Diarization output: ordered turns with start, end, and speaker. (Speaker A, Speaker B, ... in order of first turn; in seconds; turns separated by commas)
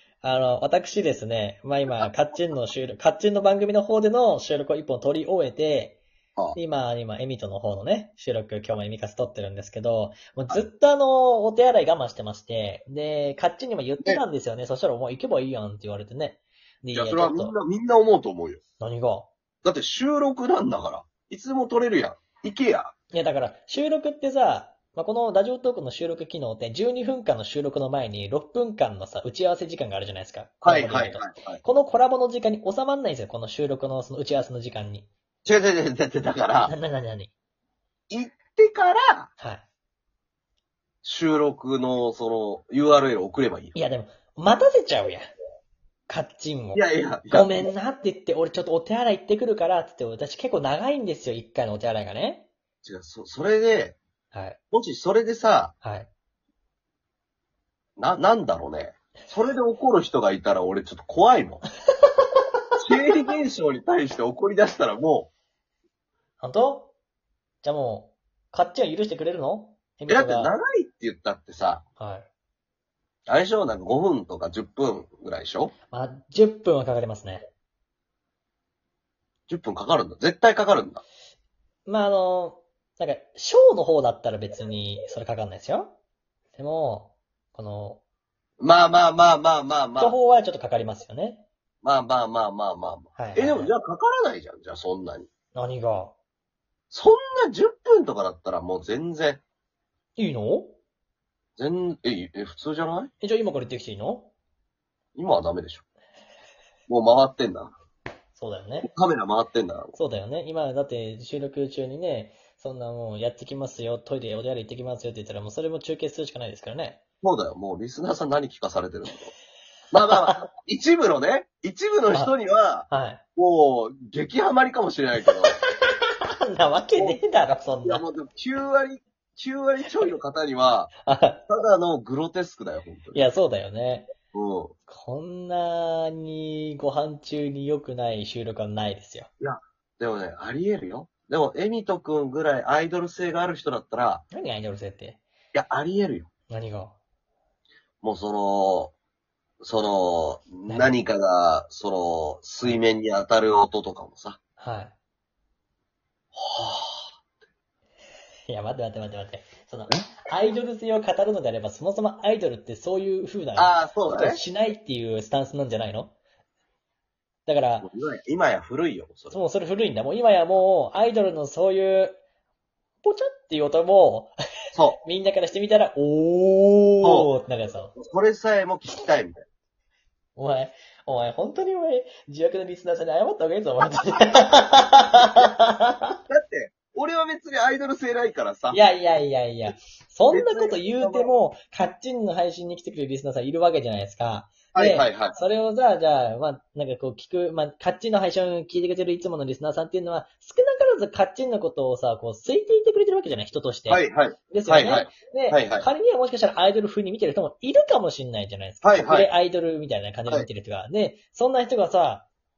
Speaker A: 0.2-6.0, Speaker A: 6.6-17.6, Speaker B: 16.9-18.6, Speaker A: 18.8-19.3, Speaker B: 19.6-22.9, Speaker A: 23.1-35.1, Speaker B: 30.6-31.6, Speaker B: 35.5-36.8, Speaker A: 36.6-37.3, Speaker B: 38.1-39.3, Speaker A: 39.4-39.6, Speaker B: 41.0-43.8, Speaker A: 43.7-45.3, Speaker A: 46.1-52.5, Speaker B: 46.8-47.7, Speaker B: 52.8-54.0, Speaker A: 54.3-54.6, Speaker B: 54.7-55.8, Speaker A: 55.8-56.1, Speaker B: 58.0-61.6, Speaker B: 62.8-65.3, Speaker A: 66.4-66.9, Speaker A: 67.6-70.5, Speaker B: 70.1-71.8, Speaker A: 72.0-72.3, Speaker B: 73.3-75.7, Speaker A: 75.9-77.5, Speaker B: 79.5-81.0, Speaker A: 81.9-86.0, Speaker A: 86.6-88.0, Speaker B: 88.6-90.2, Speaker A: 90.0-91.5, Speaker B: 91.8-95.3, Speaker A: 93.2-93.7, Speaker A: 95.5-96.2, Speaker B: 96.9-99.4, Speaker A: 100.2-100.8, Speaker B: 101.6-103.1, Speaker A: 103.2-104.3, Speaker B: 105.2-105.8, Speaker B: 106.9-107.7, Speaker A: 108.3-108.9, Speaker B: 108.8-110.0, Speaker A: 110.0-117.0, Speaker B: 117.2-119.3, Speaker B: 119.9-125.6, Speaker A: 120.1-120.5, Speaker A: 122.9-123.2, Speaker A: 125.6-128.1, Speaker B: 127.0-127.2, Speaker B: 127.8-130.9, Speaker A: 131.0-131.4, Speaker B: 131.5-133.3, Speaker A: 133.1-134.1, Speaker B: 134.3-134.7, Speaker A: 134.9-139.3, Speaker B: 139.4-144.2, Speaker A: 144.3-145.2, Speaker B: 145.5-146.3, Speaker A: 146.5-147.0, Speaker B: 148.0-148.9, Speaker B: 149.6-154.4, Speaker A: 150.7-151.0, Speaker A: 154.6-154.9, Speaker B: 156.3-157.1, Speaker A: 158.5-166.1, Speaker B: 163.6-164.4, Speaker A: 167.5-167.9, Speaker B: 167.8-169.4, Speaker A: 169.3-172.2, Speaker A: 173.0-174.3, Speaker B: 174.7-175.0, Speaker A: 175.0-177.9, Speaker B: 177.0-177.3, Speaker B: 177.9-179.4, Speaker A: 180.4-186.2, Speaker B: 186.3-188.8, Speaker A: 188.7-212.3, Speaker B: 190.3-191.3, Speaker B: 194.7-195.4, Speaker B: 203.9-205.9, Speaker B: 208.8-209.3